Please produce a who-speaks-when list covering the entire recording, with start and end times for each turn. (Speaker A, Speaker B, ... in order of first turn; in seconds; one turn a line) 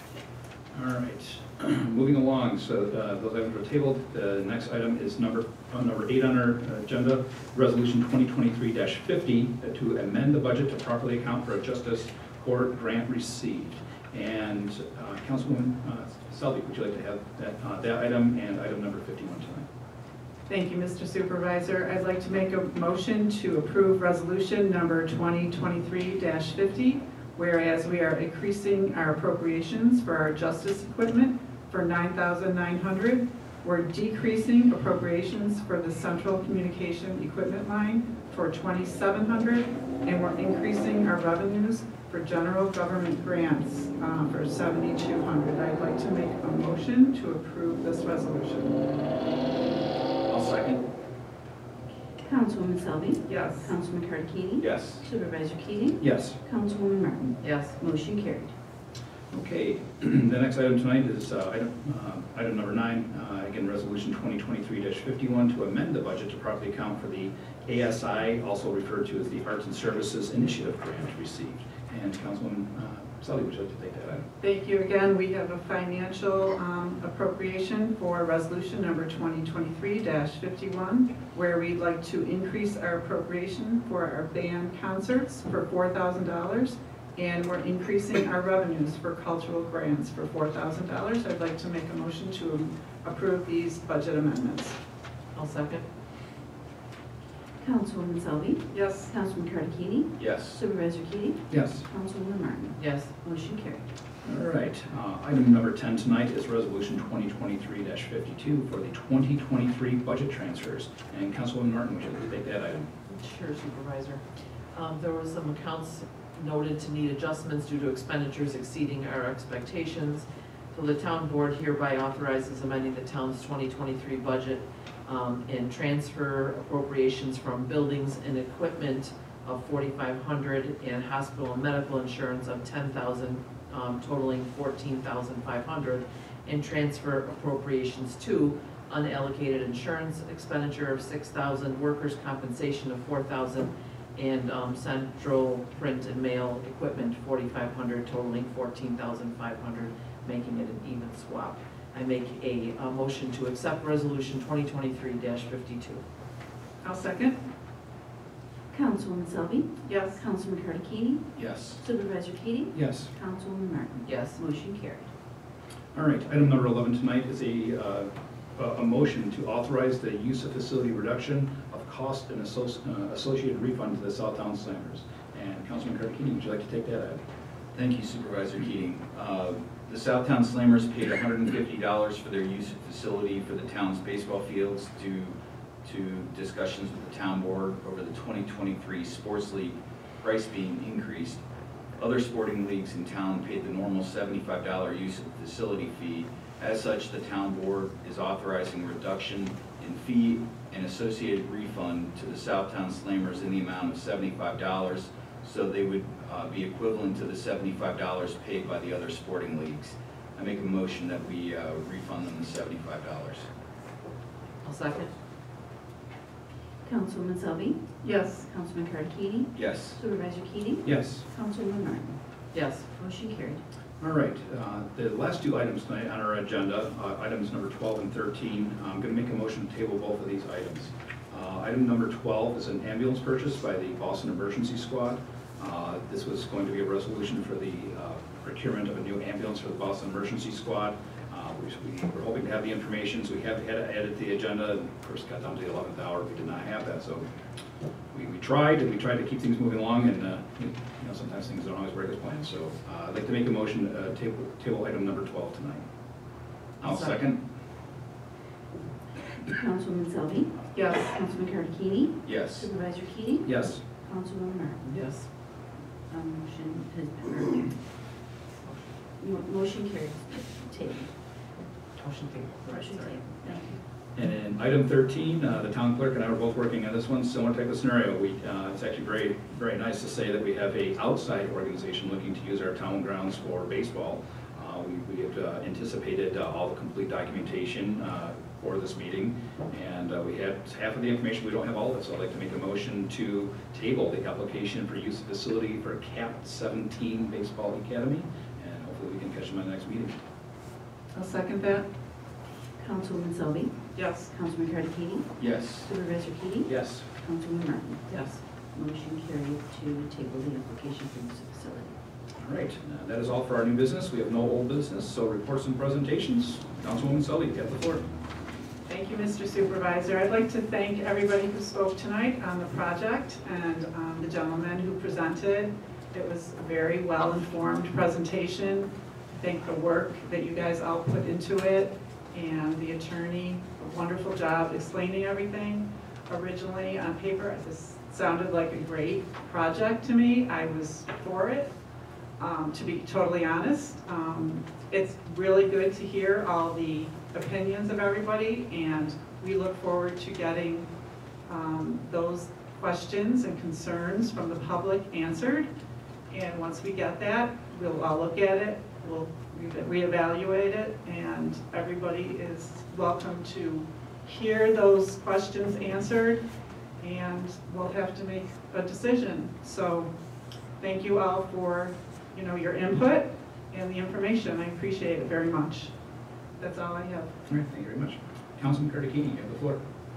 Speaker A: 0.7-19.7
Speaker B: 20.5-48.8
Speaker C: 50.3-50.8
Speaker D: 52.2-58.5
Speaker B: 53.3-53.7
Speaker C: 54.6-55.0
Speaker A: 56.0-56.4
Speaker E: 57.4-57.8
Speaker A: 59.3-74.3
Speaker B: 74.4-94.8
Speaker E: 95.3-95.8
Speaker D: 97.6-103.8
Speaker B: 98.7-99.1
Speaker C: 100.2-100.6
Speaker A: 101.5-101.8
Speaker E: 102.8-103.1
Speaker A: 104.2-112.9
Speaker E: 113.1-156.0
Speaker B: 156.8-157.4
Speaker D: 158.7-165.1
Speaker B: 159.9-160.2
Speaker C: 161.4-161.8
Speaker A: 162.7-163.1
Speaker E: 164.1-164.4
Speaker A: 165.9-177.2
Speaker C: 177.8-191.4
Speaker C: 192.0-213.5
Speaker E: 214.6-215.1
Speaker D: 216.8-222.2
Speaker B: 218.0-218.5
Speaker C: 219.6-220.0
Speaker A: 220.8-221.2
Speaker E: 222.5-222.9
Speaker D: 222.9-223.6
Speaker A: 224.0-247.3
Speaker A: 248.1-255.8
Speaker A: 256.8-257.4
Speaker E: 256.8-257.2
Speaker D: 259.5-265.1
Speaker B: 260.8-261.1
Speaker C: 262.2-262.7
Speaker A: 263.4-263.8
Speaker E: 264.9-265.3
Speaker D: 266.1-267.8
Speaker E: 268.6-268.9
Speaker D: 269.2-271.1
Speaker E: 272.0-273.7
Speaker D: 272.6-273.8
Speaker A: 274.2-300.2
Speaker B: 301.1-301.9
Speaker D: 302.8-308.1
Speaker B: 303.9-304.3
Speaker C: 305.4-305.9
Speaker A: 306.7-307.1
Speaker B: 308.1-308.4
Speaker D: 308.7-311.9
Speaker A: 312.4-318.1
Speaker B: 318.9-341.7
Speaker B: 342.4-350.9
Speaker B: 351.5-355.7
Speaker B: 356.3-366.4
Speaker B: 367.0-370.1
Speaker B: 370.8-375.9
Speaker B: 376.6-377.4
Speaker A: 377.5-379.8